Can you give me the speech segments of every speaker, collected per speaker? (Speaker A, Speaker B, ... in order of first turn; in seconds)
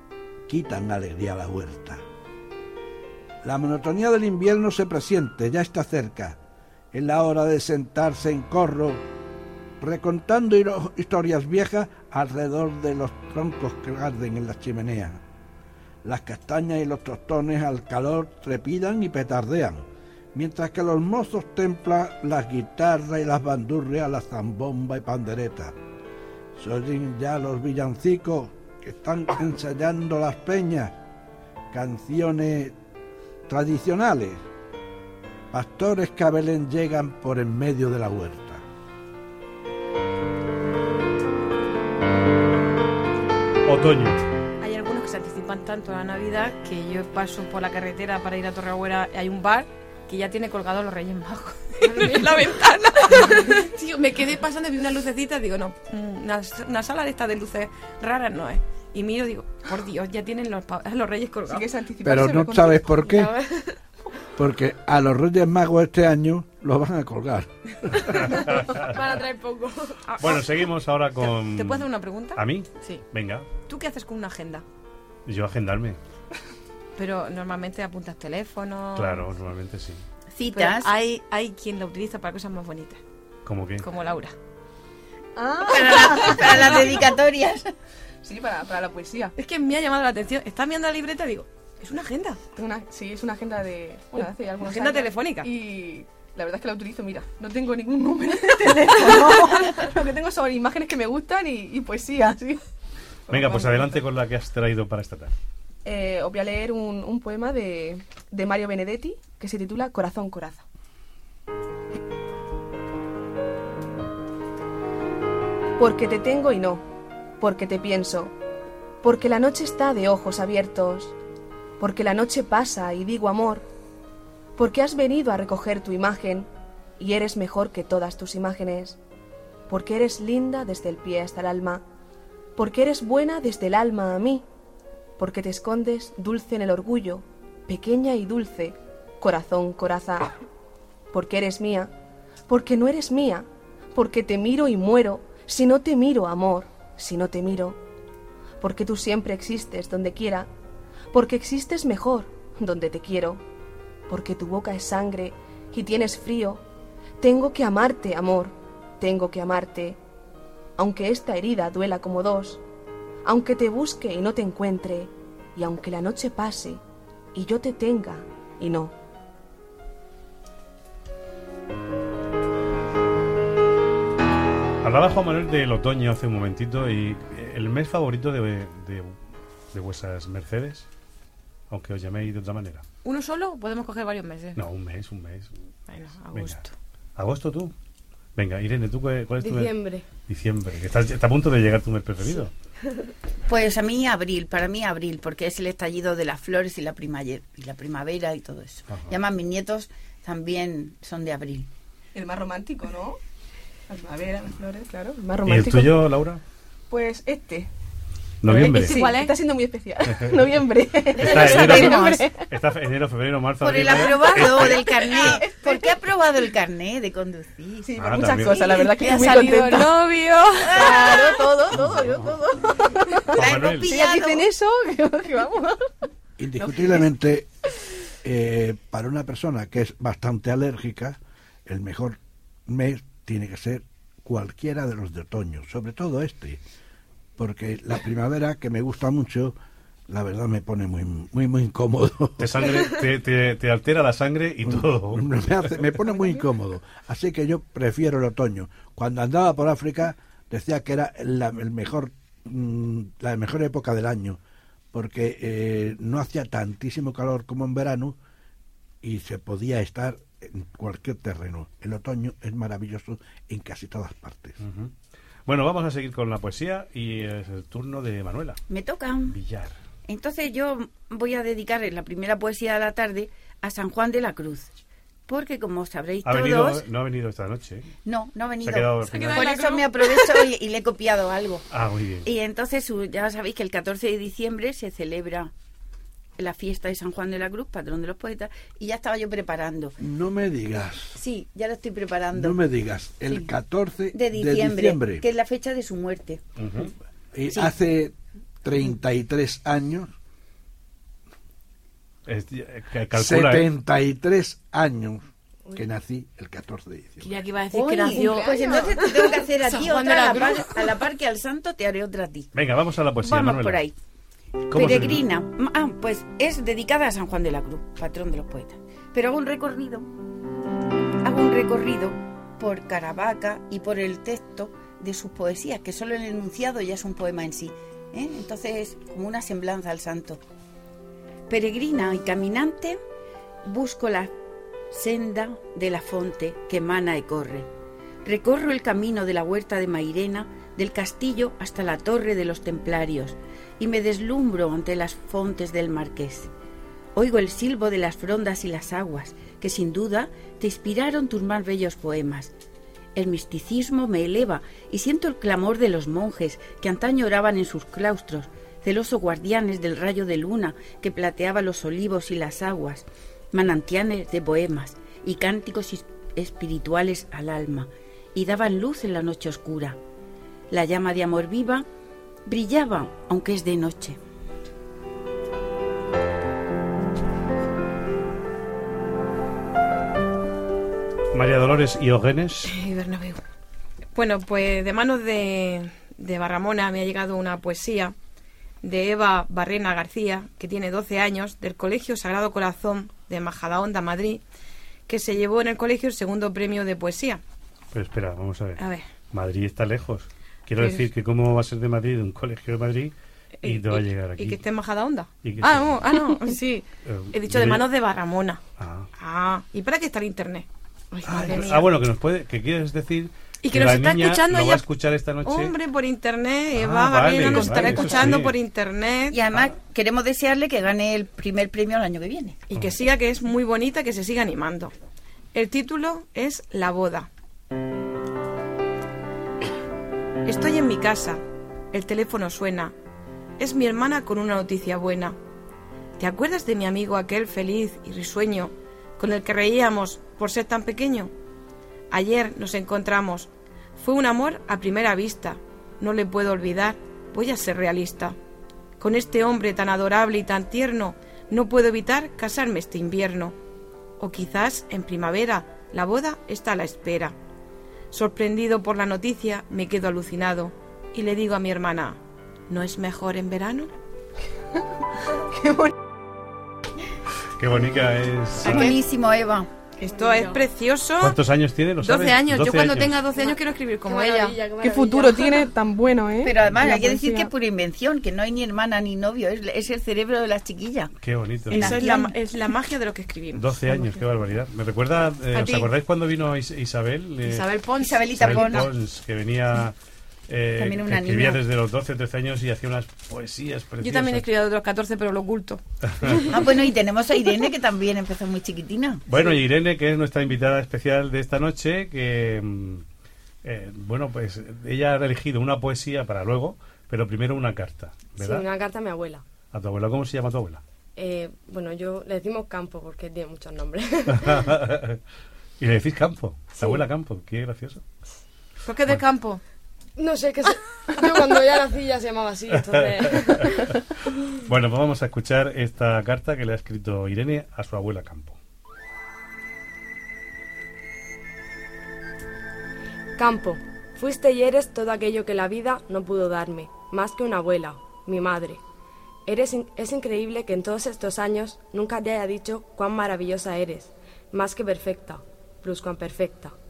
Speaker A: 0.5-2.0, 3.4-6.4, 6.9-9.0, 9.8-15.2, 16.0-25.7, 26.6-30.9, 31.7-32.7, 33.5-34.4, 35.5-38.6, 62.0-63.3, 64.4-67.5, 226.4-227.5, 228.2-236.6, 237.4-239.6, 240.1-242.8, 244.6-254.4, 254.9-258.2, 259.0-264.6, 290.0-291.2, 292.3-295.2, 297.3-300.1, 303.1-307.3
Speaker B: 43.6-44.2, 68.0-69.0, 70.2-73.5, 75.2-76.0, 79.0-80.0, 83.5-83.8, 103.3-105.3, 174.8-179.2, 179.7-180.8, 181.7-182.8, 184.6-185.5, 186.3-186.6, 187.2-187.7, 188.3-189.7, 190.3-192.5, 198.9-199.2, 205.4-206.4, 208.4-209.0, 210.1-210.6, 211.2-214.9, 218.0-218.9, 223.3-223.9, 242.4-245.3, 264.6-264.9, 265.4-268.6, 269.3-269.7, 276.2-277.9, 278.6-279.6, 281.7-282.3, 296.6-296.9, 302.2-303.7, 312.5-313.8, 314.7-315.2, 381.3-382.7, 397.9-398.8, 399.3-404.6, 405.4-406.1, 407.0-407.9, 408.8-409.1, 411.2-415.8, 416.7-418.6, 467.6-468.9, 471.2-473.2, 481.2-482.0, 483.6-487.7, 488.4-489.9, 490.5-494.4, 496.1-496.5, 499.3-503.0, 503.6-508.6, 509.7-510.8, 514.3-515.2, 515.8-518.0, 522.8-523.9, 524.5-528.6
Speaker C: 44.6-61.7, 70.1-70.5, 71.2-73.0, 73.6-74.6, 77.0-79.3, 80.5-83.0, 83.8-84.3, 89.4-92.4, 94.1-95.5, 183.0-184.6, 185.9-186.7, 208.7-209.3, 219.0-221.0, 279.1-280.4, 307.2-311.0, 382.6-383.4, 384.1-388.1, 388.8-394.4, 395.1-397.4, 398.8-399.0, 400.8-401.0, 403.6-408.6, 409.2-411.9, 413.6-414.8, 415.4-419.5, 422.7-424.9, 425.5-427.3, 430.4-431.4, 431.9-432.9, 433.6-435.4, 436.2-441.3, 442.1-448.4, 449.0-453.6, 454.2-457.4, 458.1-463.9, 470.1-471.4, 472.0-474.6, 481.7-484.1, 485.5-485.9, 487.4-488.9, 494.0-496.4, 518.9-519.6
Speaker D: 53.1-53.5, 61.5-63.0, 85.3-86.8, 88.2-89.3, 92.6-102.6, 103.3-104.0, 105.8-110.6, 115.8-116.8, 117.4-118.3, 119.0-121.1, 121.8-123.6, 124.5-126.5, 127.0-129.0, 129.7-131.8, 132.6-134.4, 135.2-140.3, 141.1-141.9, 142.5-147.8, 148.6-150.5, 151.1-153.4, 154.1-156.6, 157.2-160.0, 160.8-162.6, 163.2-166.8, 167.3-168.9, 202.1-203.2, 203.9-206.1, 206.9-207.7, 208.5-212.5, 215.1-215.9, 217.8-220.0, 220.7-225.9, 226.6-227.0, 246.0-246.4, 308.1-308.9, 465.5-465.9, 470.0-470.6, 474.8-477.5
Speaker E: 63.1-63.8, 68.8-70.0, 189.4-190.0, 470.1-470.6, 474.1-475.7, 508.4-509.4, 511.1-514.7, 520.2-523.9, 533.4-538.8, 539.5-546.7
Speaker F: 80.3-80.9, 85.6-87.7, 193.5-201.7, 211.2-212.3, 213.6-219.8, 220.6-221.8, 223.3-224.5, 268.7-269.4, 270.1-274.7, 275.3-276.9, 278.0-281.7, 282.2-285.5, 286.4-289.9, 291.1-292.6, 294.1-296.4, 307.7-312.5, 313.2-313.9, 314.7-320.1, 321.2-330.4, 331.5-333.0, 333.6-334.3, 334.9-337.7, 338.2-346.5, 347.1-352.5, 353.1-370.0, 370.7-371.9, 372.4-374.2, 419.3-422.6, 468.6-469.7, 476.4-481.1, 481.7-482.3, 488.0-488.9, 490.8-491.6, 496.5-499.2